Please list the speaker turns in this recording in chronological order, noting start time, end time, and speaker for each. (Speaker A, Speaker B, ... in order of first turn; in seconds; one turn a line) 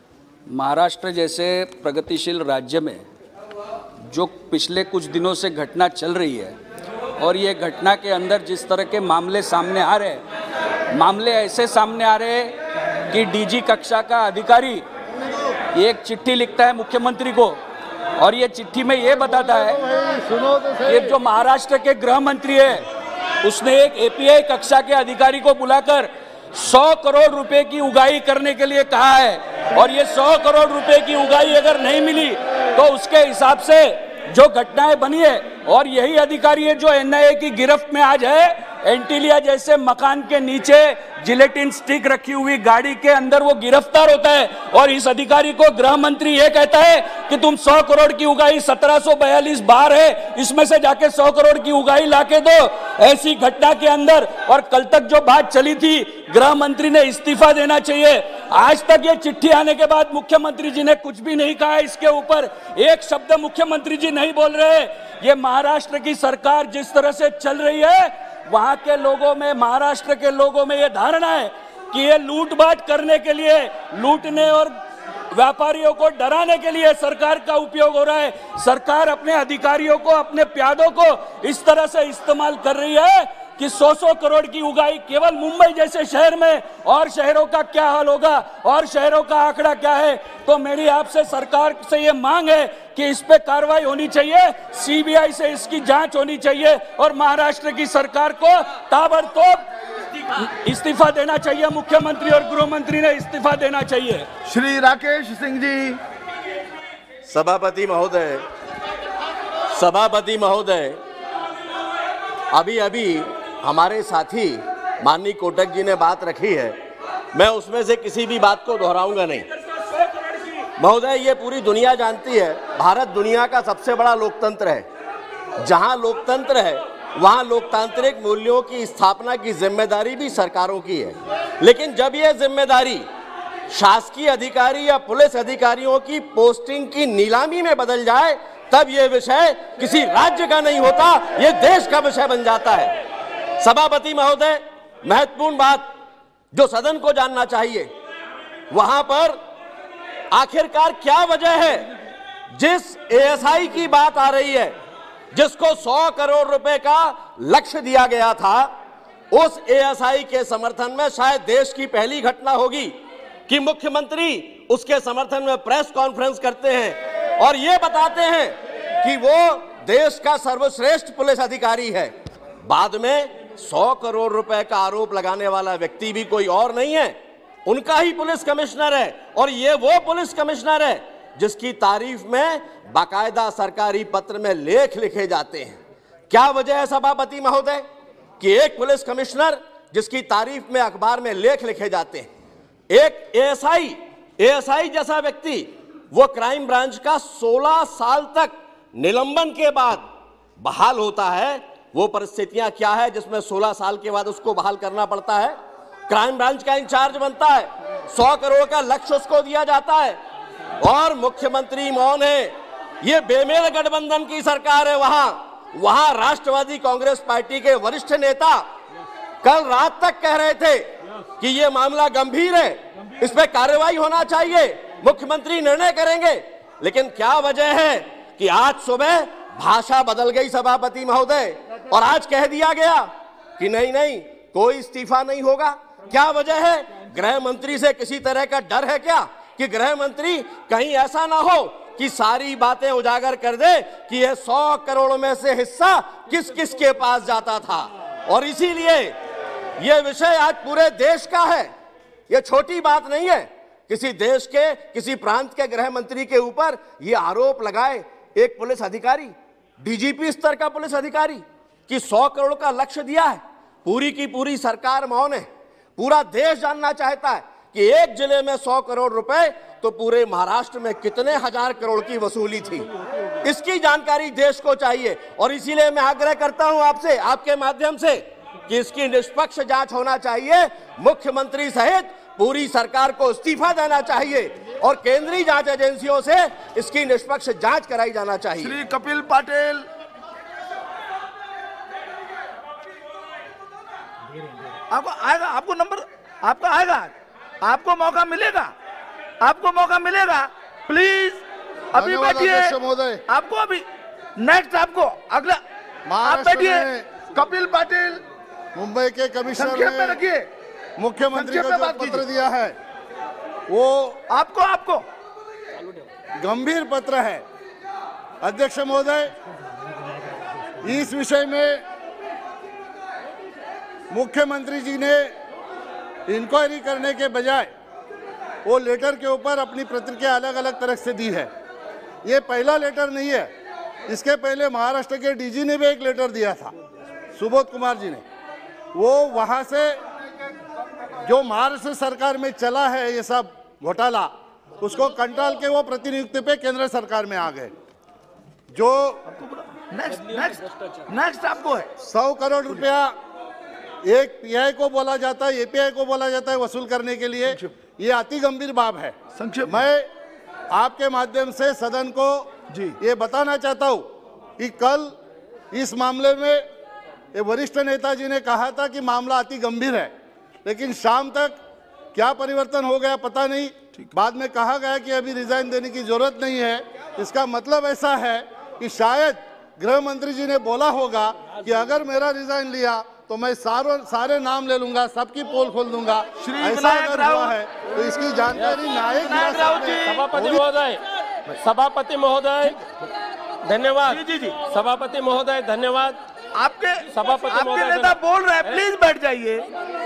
Speaker A: 0.5-3.0
Speaker A: 4.0-6.5
Speaker A: 7.2-10.2
Speaker A: 10.9-12.6
Speaker A: 13.1-14.8
Speaker A: 15.7-17.6
Speaker A: 18.2-19.8
Speaker B: 19.1-21.2
Speaker A: 20.9-22.8
Speaker A: 23.4-74.7
Speaker A: 75.3-99.6
Speaker A: 100.2-104.3
Speaker C: 104.5-106.0
Speaker D: 107.3-108.4
Speaker D: 109.7-111.0
Speaker D: 112.5-116.7
Speaker D: 117.3-119.5
Speaker D: 120.8-124.9
Speaker D: 125.6-133.0
Speaker D: 133.7-142.9
Speaker D: 143.6-145.9
Speaker D: 146.5-147.9
Speaker D: 148.7-149.4
Speaker D: 150.3-151.9
Speaker D: 152.5-154.7
Speaker D: 155.3-158.7
Speaker D: 159.3-162.9
Speaker D: 163.5-172.1
Speaker D: 172.6-185.8
Speaker D: 186.3-187.8
Speaker D: 188.4-192.3
Speaker D: 192.9-200.0
Speaker D: 200.6-205.6
Speaker D: 206.1-210.2
Speaker D: 210.8-218.6
Speaker D: 219.4-233.1
Speaker D: 233.6-249.1
Speaker D: 249.8-251.7
Speaker D: 252.3-265.4
Speaker D: 266.0-272.9
Speaker D: 273.4-288.8
Speaker C: 288.6-289.9
Speaker C: 294.9-298.7
Speaker C: 299.4-302.8
Speaker B: 301.9-303.2
Speaker C: 303.3-303.9
Speaker C: 304.4-305.6
Speaker B: 306.1-307.1
Speaker C: 306.2-308.2
Speaker B: 308.7-310.2
Speaker C: 309.5-310.5
Speaker B: 311.0-312.7
Speaker C: 311.3-312.2
Speaker B: 313.7-314.2
Speaker C: 314.3-315.0
Speaker B: 316.4-317.4
Speaker B: 318.4-319.3
Speaker B: 320.8-321.8
Speaker B: 324.1-325.3
Speaker B: 326.3-327.7
Speaker B: 328.6-331.5
Speaker B: 332.2-333.5
Speaker B: 334.1-336.7
Speaker B: 337.4-338.2
Speaker B: 338.9-340.0
Speaker B: 341.2-347.7
Speaker B: 348.7-349.2
Speaker C: 349.3-351.9
Speaker A: 350.1-350.9
Speaker B: 352.0-353.1
Speaker B: 354.0-360.1
Speaker C: 359.3-359.8
Speaker B: 360.7-364.1
Speaker B: 364.6-365.1
Speaker B: 365.7-366.6
Speaker B: 367.3-370.1
Speaker B: 370.6-371.6
Speaker B: 372.1-390.6
Speaker C: 386.4-387.5
Speaker C: 389.0-390.2
Speaker E: 390.0-392.8
Speaker E: 393.6-396.2
Speaker C: 394.0-394.6
Speaker C: 396.6-399.7
Speaker E: 397.1-398.8